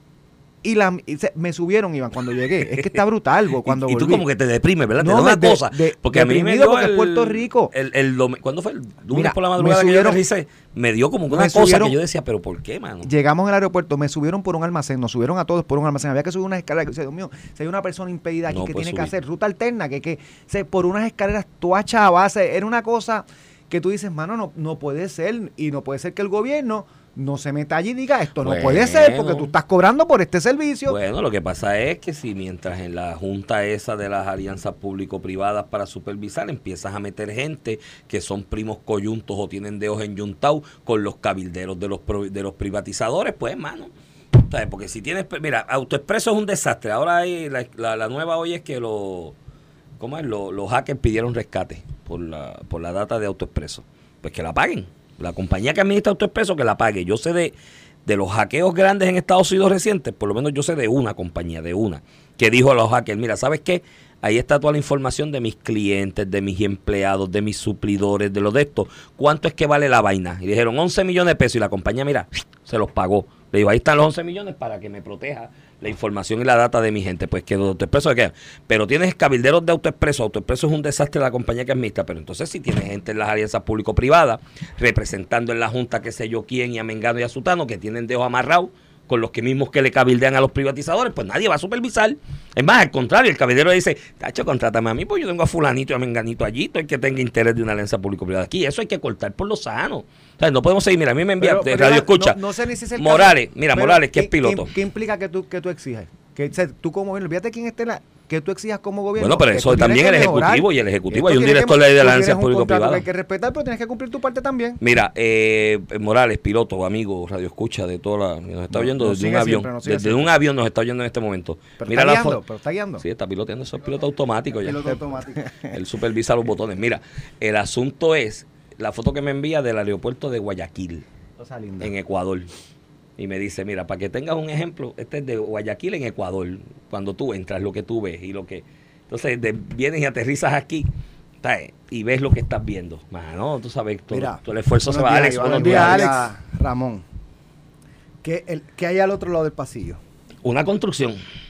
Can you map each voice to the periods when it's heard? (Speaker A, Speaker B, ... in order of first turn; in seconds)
Speaker A: 0.6-4.3, 5.0-7.7, 9.1-10.2, 11.3-12.0, 13.0-31.0, 101.4-114.8, 118.7-120.3, 121.8-123.0, 131.4-131.9, 145.5-146.2
Speaker B: 3.6-13.1, 18.5-19.1, 28.4-29.5, 30.9-49.4, 50.0-57.5, 58.1-102.4, 103.0-104.7, 109.2-113.0, 114.8-122.4, 123.0-124.9, 125.7-131.1, 131.8-132.5, 133.2-140.9, 141.4-146.3, 150.4-151.2
Speaker C: 124.5-125.5, 144.1-147.1, 148.2-150.0